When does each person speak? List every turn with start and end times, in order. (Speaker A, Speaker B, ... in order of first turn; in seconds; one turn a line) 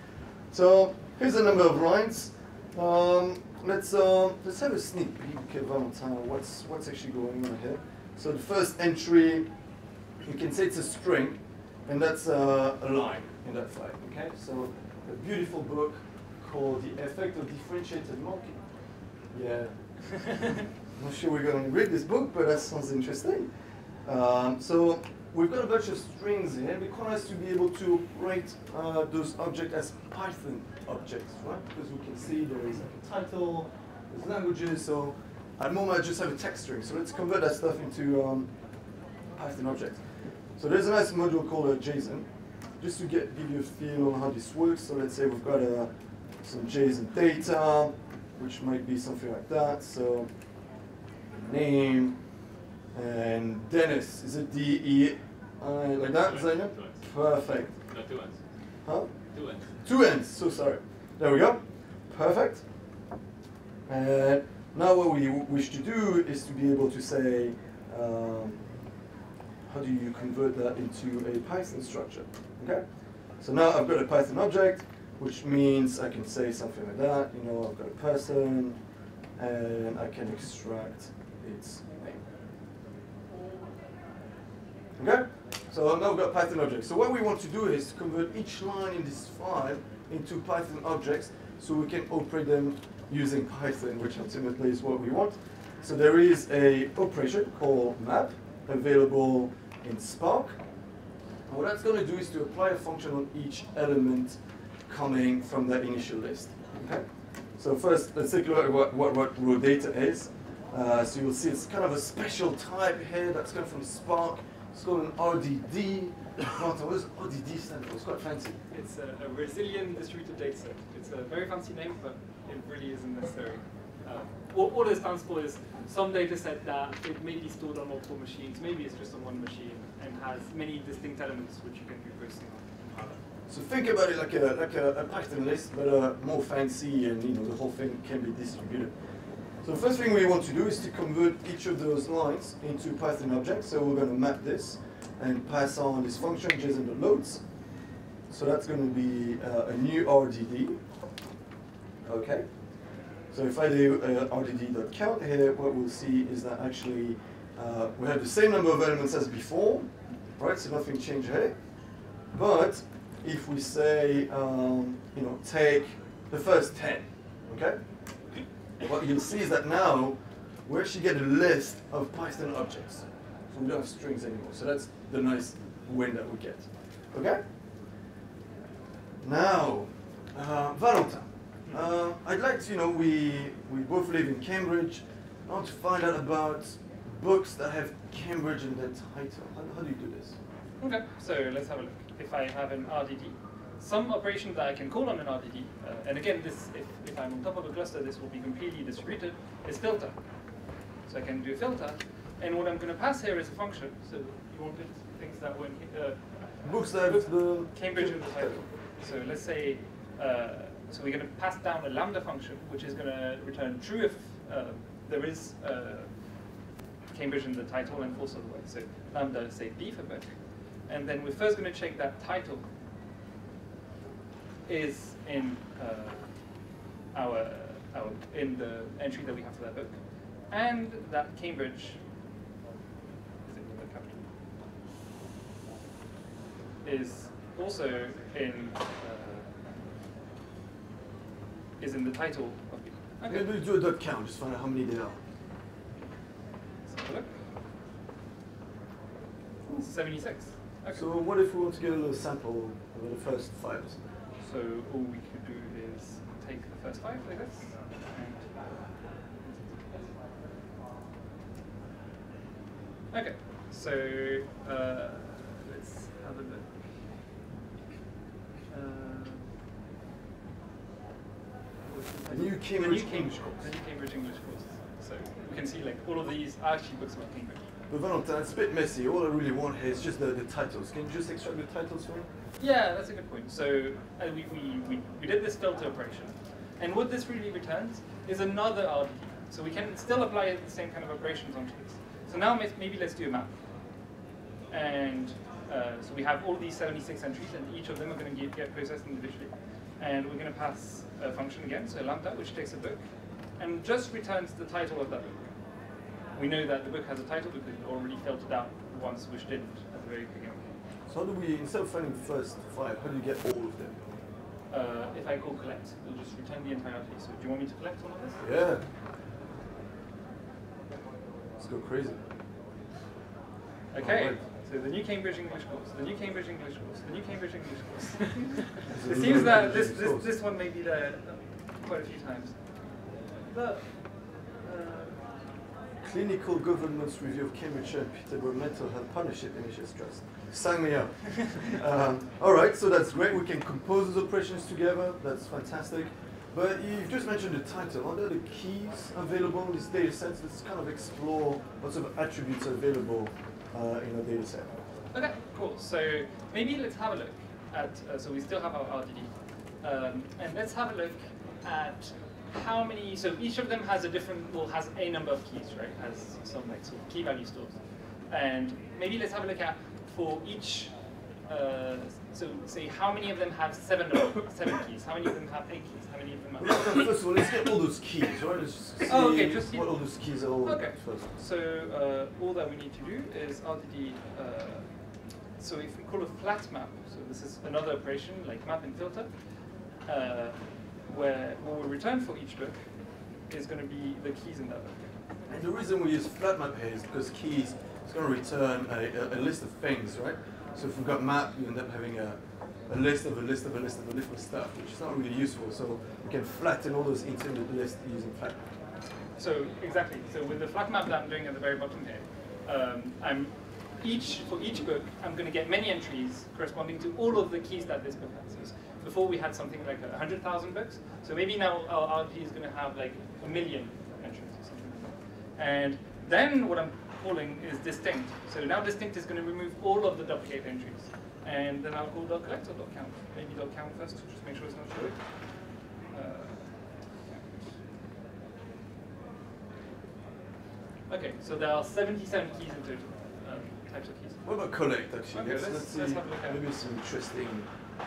Speaker A: 0.5-9.5
Speaker A: 10.2-18.6
Speaker A: 19.3-20.4
Speaker A: 20.9-23.5
Speaker A: 24.0-38.5
Speaker A: 39.4-42.3
Speaker A: 42.8-50.3
Speaker A: 51.3-52.2
Speaker A: 52.9-57.8
Speaker B: 56.1-57.0
Speaker B: 57.8-58.4
Speaker A: 58.8-59.1
Speaker B: 59.3-59.7
Speaker A: 59.8-62.6
Speaker A: 63.9-68.7
Speaker A: 69.7-72.9
Speaker A: 73.4-78.8
Speaker A: 79.4-82.3
Speaker A: 85.0-100.6
Speaker A: 101.5-118.6
Speaker C: 118.7-133.2
Speaker A: 133.5-138.9
Speaker A: 139.6-147.4
Speaker A: 148.3-150.8
Speaker A: 152.0-152.5
Speaker A: 153.3-161.6
Speaker A: 162.3-167.8
Speaker A: 168.8-177.4
Speaker A: 179.2-190.4
Speaker C: 190.8-200.2
Speaker C: 201.1-216.3
Speaker A: 206.6-208.7
Speaker C: 217.1-222.7
Speaker C: 224.7-226.3
Speaker C: 227.1-232.0
Speaker C: 233.4-234.3
Speaker C: 236.8-239.5
Speaker C: 241.8-243.5
Speaker A: 243.3-245.2
Speaker C: 246.9-247.3
Speaker C: 249.7-251.1
Speaker A: 250.9-254.0
Speaker C: 254.4-260.1
Speaker C: 263.1-267.1
Speaker C: 268.7-269.5
Speaker C: 271.8-277.6
Speaker A: 272.3-273.7
Speaker A: 277.9-282.3
Speaker C: 282.6-293.6
Speaker C: 294.7-305.5
Speaker C: 306.4-310.7
Speaker A: 311.1-314.0
Speaker C: 314.7-318.4
Speaker A: 318.4-318.9
Speaker A: 321.6-322.2
Speaker C: 323.9-332.8
Speaker A: 324.0-324.4
Speaker A: 328.9-330.3
Speaker C: 333.4-335.4
Speaker A: 336.0-354.8
Speaker C: 355.1-377.2
Speaker A: 376.6-381.3
Speaker C: 379.1-389.4
Speaker C: 390.0-395.1
Speaker A: 395.5-408.8
Speaker C: 409.4-437.6
Speaker C: 441.1-444.5
Speaker A: 444.4-447.8
Speaker C: 445.3-446.6